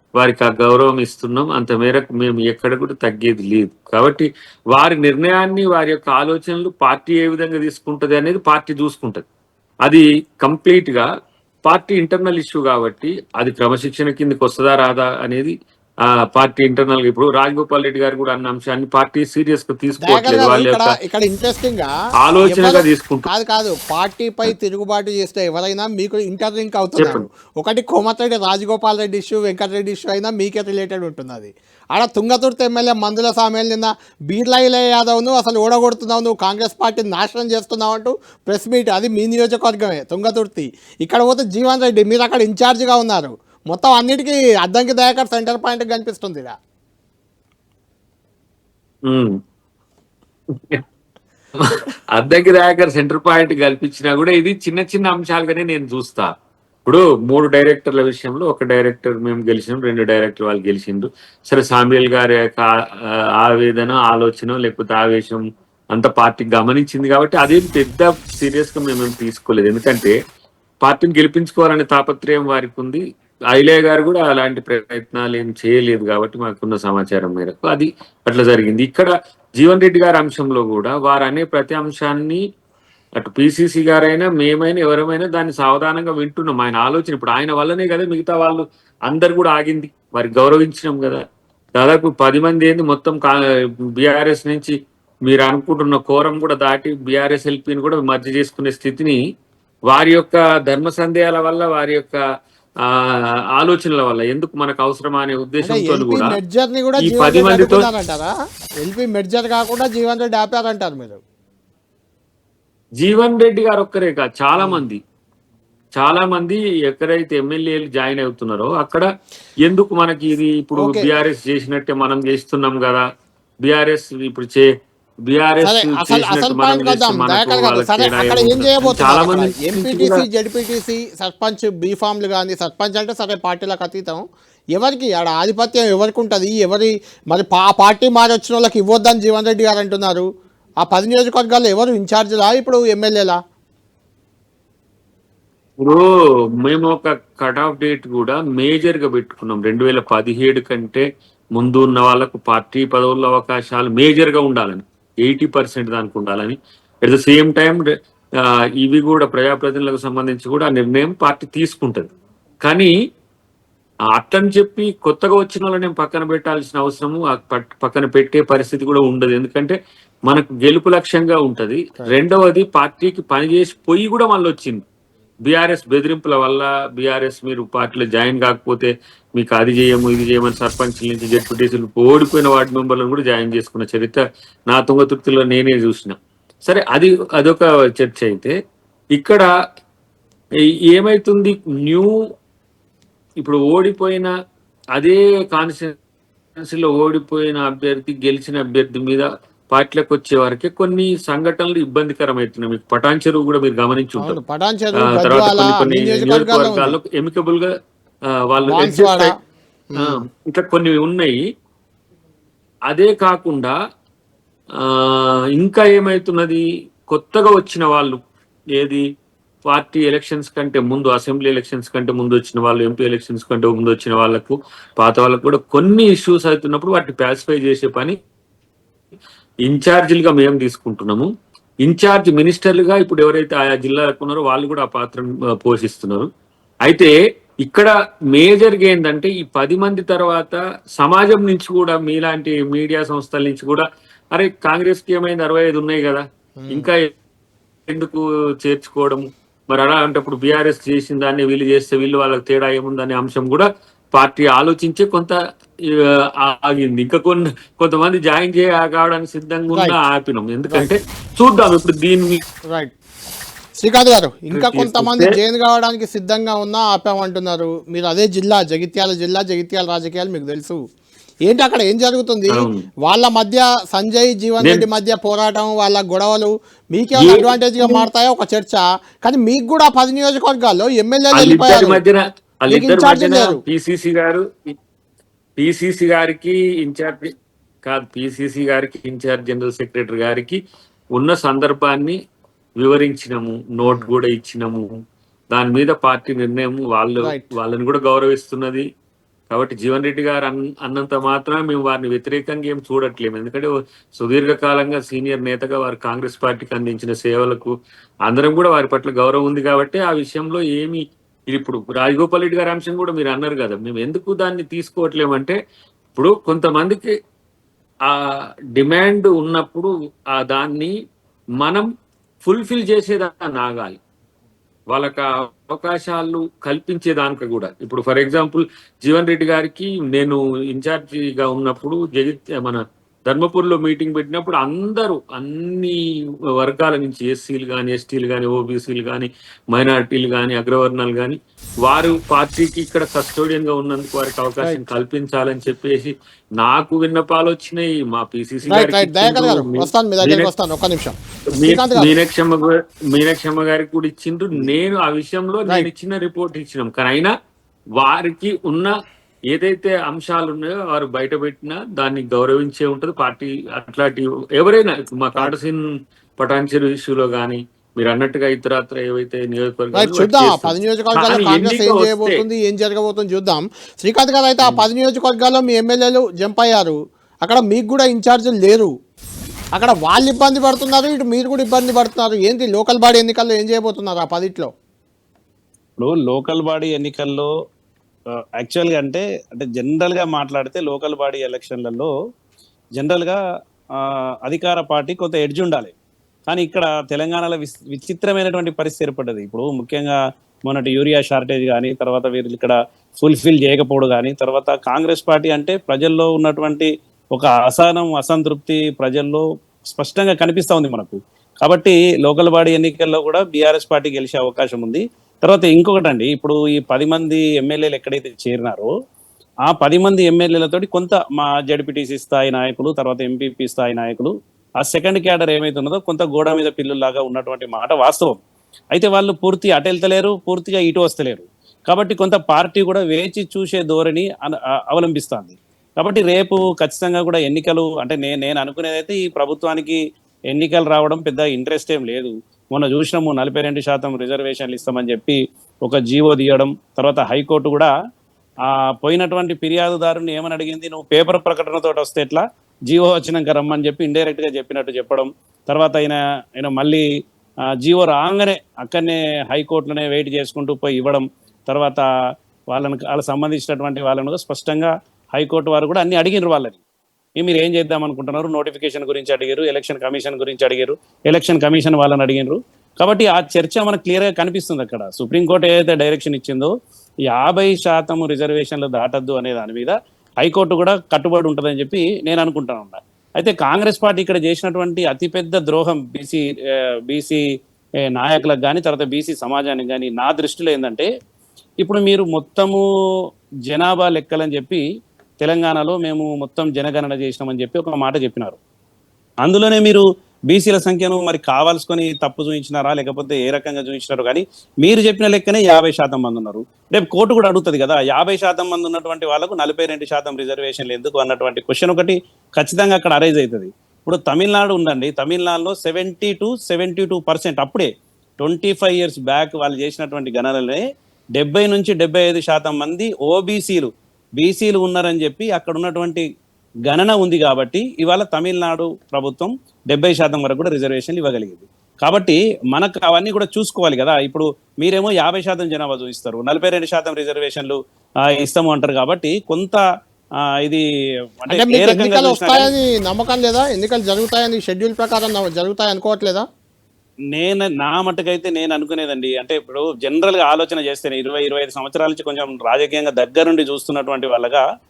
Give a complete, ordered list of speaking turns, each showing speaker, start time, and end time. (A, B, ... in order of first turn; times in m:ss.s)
0:00.2-0:09.2 A
0:09.8-0:11.1 A
0:11.6-0:20.9 A
0:20.0-0:21.9 B
0:22.2-0:23.3 A
0:22.4-0:46.5 B
0:27.0-0:27.2 A
0:49.0-0:49.4 A
0:50.5-0:50.8 A
0:51.6-0:56.3 A
0:56.8-1:10.2 A
1:10.8-1:22.4 A
1:23.2-1:31.2 A
1:31.8-1:39.2 A
1:39.9-1:42.2 A
1:42.8-1:46.4 A
1:45.6-1:51.2 B
1:47.0-1:47.8 A
1:53.0-1:55.0 A
1:54.6-1:54.8 B
1:55.9-1:59.1 A
1:59.6-2:03.0 A
2:00.8-2:01.1 B
2:03.6-2:04.7 A
2:05.2-2:10.2 A
2:05.6-2:20.3 B
2:20.8-2:23.4 B
2:25.8-2:42.1 A
2:42.6-2:42.9 A
2:44.1-2:54.8 A
2:55.4-3:08.6 A
3:09.1-3:09.5 A
3:10.9-3:12.2 A
3:13.4-3:14.3 A
3:14.9-3:15.9 A
3:16.6-3:24.4 A
3:24.2-3:27.0 B
3:25.0-3:27.7 A
3:28.3-3:29.3 A
3:28.7-3:29.3 B
3:29.9-3:30.2 B
3:30.0-3:31.4 A
3:32.9-3:33.8 A
3:34.8-3:38.2 A
3:38.7-3:39.0 A
3:39.7-3:48.2 A
3:49.6-3:51.3 A
3:51.8-3:56.3 A
3:56.8-4:07.1 A
4:06.6-4:06.9 B
4:07.9-4:22.4 A
4:19.7-4:20.0 B
4:23.8-4:30.8 B
4:24.5-4:25.4 A
4:31.4-4:42.0 B
4:32.5-4:32.9 A
4:37.2-4:38.0 A
4:41.3-4:44.8 A
4:42.7-4:43.6 B
4:45.6-4:47.3 A
4:47.8-4:50.6 A
4:51.1-4:52.2 A
4:52.8-4:54.9 A
4:55.5-4:58.9 A
4:57.2-4:57.5 B
4:59.5-5:07.7 A
5:08.3-5:15.6 A
5:16.2-5:17.1 A
5:18.0-5:20.9 A
5:21.6-5:21.9 A
5:22.4-5:24.0 A
5:24.9-5:36.0 A
5:36.6-5:50.5 A
5:48.6-5:52.1 B
5:51.5-5:57.3 A
5:57.9-5:58.9 A
5:59.5-6:05.8 A
6:06.4-6:12.4 A
6:09.9-6:18.9 B
6:19.7-6:24.7 B
6:26.0-6:27.5 C
6:28.6-6:32.1 C
6:33.0-6:33.4 C
6:34.0-6:35.9 C
6:36.5-6:58.9 C
6:59.6-7:08.4 C
7:08.9-7:20.0 C
7:20.5-7:27.9 C
7:28.6-7:37.0 C
7:37.8-7:42.0 C
7:42.7-7:46.8 C
7:47.4-7:56.7 C
7:57.3-8:06.4 C
8:07.1-8:07.4 C
8:08.1-8:11.1 C
8:11.8-8:12.8 C
8:13.7-8:14.8 C
8:15.4-8:18.6 C
8:19.4-8:37.9 C
8:38.4-8:40.8 C
8:41.3-8:46.2 C
8:46.9-8:57.8 C
8:58.4-8:59.8 C
9:01.4-9:02.7 C
9:01.5-9:06.4 B
9:07.3-9:14.6 C